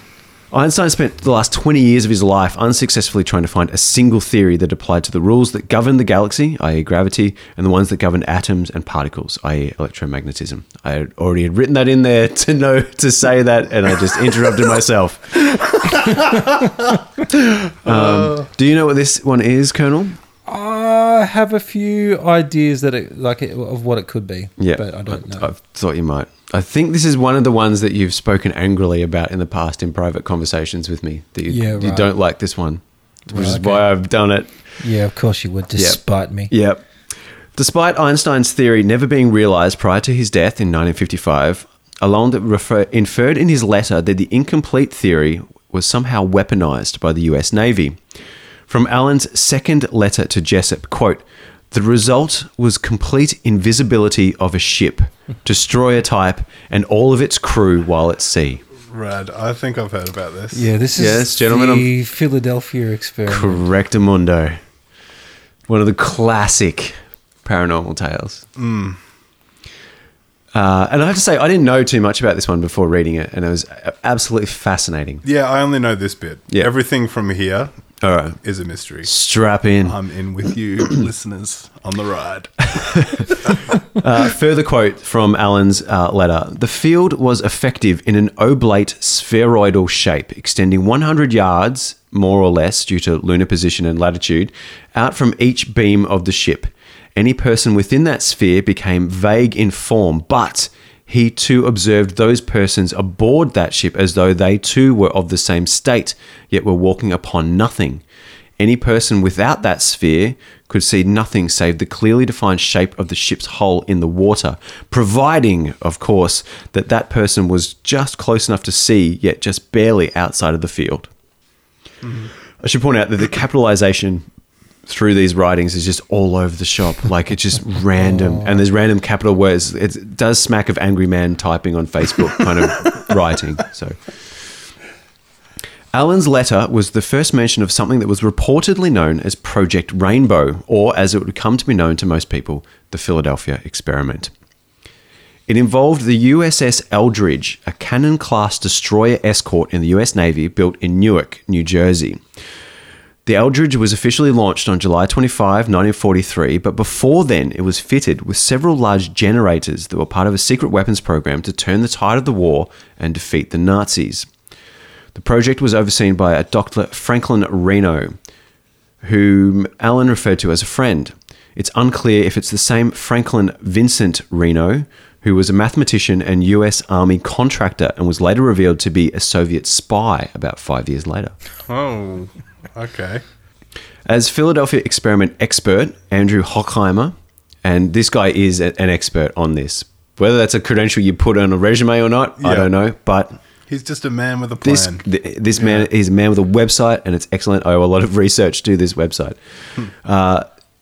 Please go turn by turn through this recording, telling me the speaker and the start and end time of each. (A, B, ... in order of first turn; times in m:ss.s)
0:00.5-0:15.8 A
0:17.3-0:20.2 A
0:17.9-0:18.4 B
0:20.5-0:25.5 C
0:24.6-0:34.5 A
0:31.5-0:32.1 C
0:33.3-0:33.8 C
0:34.8-0:36.5 C
0:36.5-0:36.8 A
0:37.6-0:48.0 A
0:48.7-0:58.6 A
0:58.9-1:00.7 B
1:00.5-1:03.6 C
1:01.0-1:01.9 A
1:03.3-1:04.6 A
1:05.7-1:08.4 A
1:08.6-1:09.0 B
1:10.5-1:15.2 A
1:15.2-1:17.7 B
1:18.0-1:18.4 A
1:18.4-1:19.1 B
1:19.0-1:20.0 A
1:19.8-1:23.6 B
1:24.0-1:48.0 A
1:48.6-2:01.1 A
2:02.0-2:02.3 B
2:02.6-2:04.3 A
2:04.9-2:14.1 A
2:08.2-2:08.5 C
2:15.9-2:24.3 A
2:25.5-2:32.2 A
2:33.3-2:44.3 A
2:45.2-2:48.2 A
2:49.0-3:01.4 A
3:01.7-3:03.2 B
3:04.1-3:13.4 A
3:12.4-3:12.7 B
3:13.7-3:15.0 B
3:14.6-3:20.5 A
3:15.6-3:15.9 B